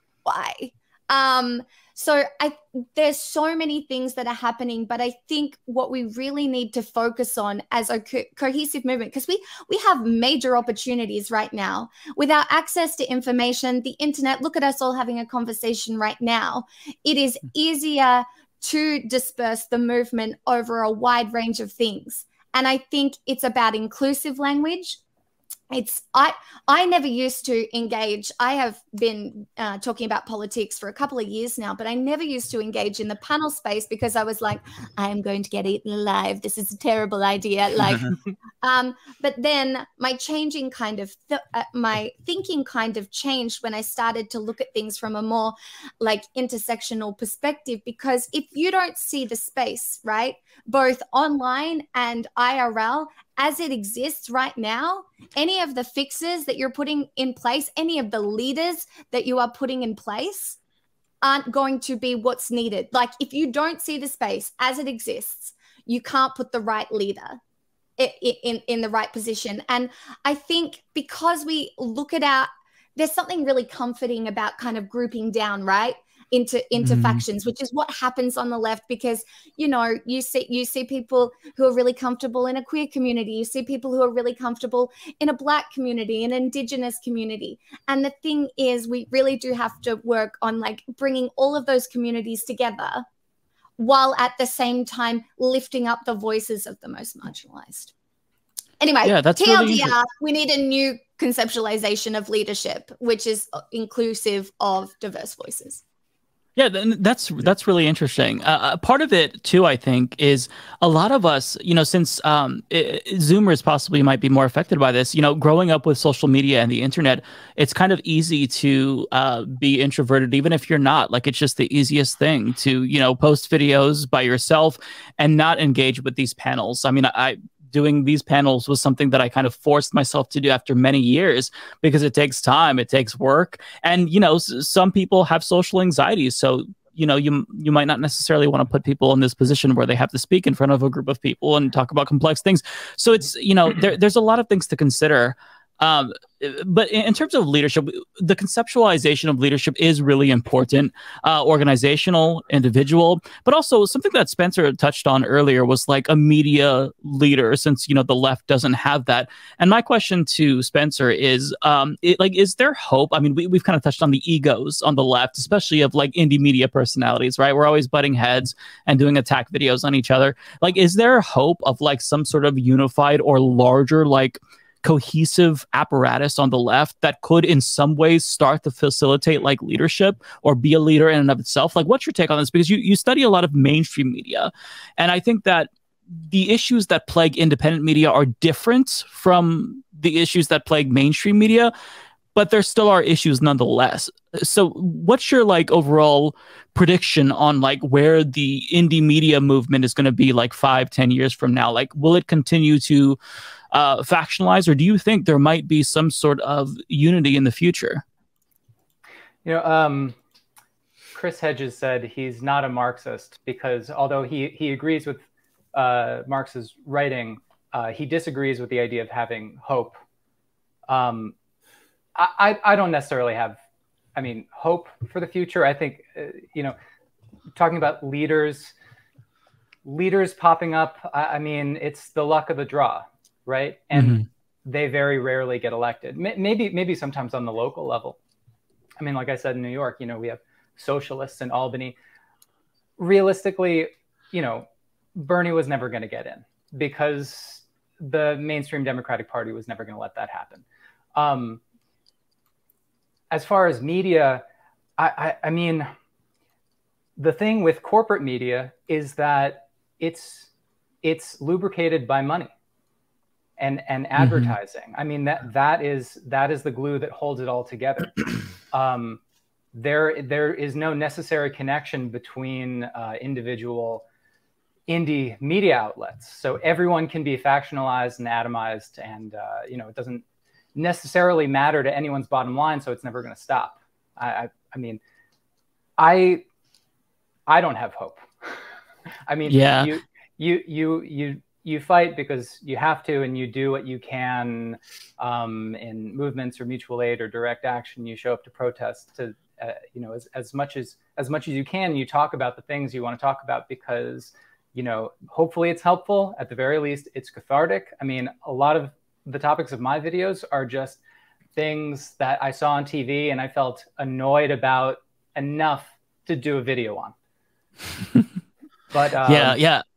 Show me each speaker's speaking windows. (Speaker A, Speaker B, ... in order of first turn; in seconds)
Speaker A: 0.2-25.0, 25.7-38.1, 38.6-60.6, 61.2-67.4, 68.0-93.0, 93.8-97.9, 98.8-105.8
Speaker B: 76.8-77.2, 99.0-99.9, 106.5-191.7, 192.3-203.2, 203.7-208.0, 233.9-234.2, 264.1-264.5, 289.5-289.9, 319.2-319.8
Speaker C: 209.4-210.2, 211.1-220.0, 220.9-221.3, 222.2-223.6, 224.2-226.8, 227.5-228.7, 229.8-238.2, 239.0-241.9, 243.0-250.6, 251.1-251.6, 253.3-254.4, 255.0-255.9, 257.2-260.5, 261.0-262.5, 263.6-269.2, 269.7-274.0, 274.9-280.2, 280.7-285.0, 286.0-286.4, 287.5-288.6, 289.3-311.0, 311.6-317.1, 318.9-319.6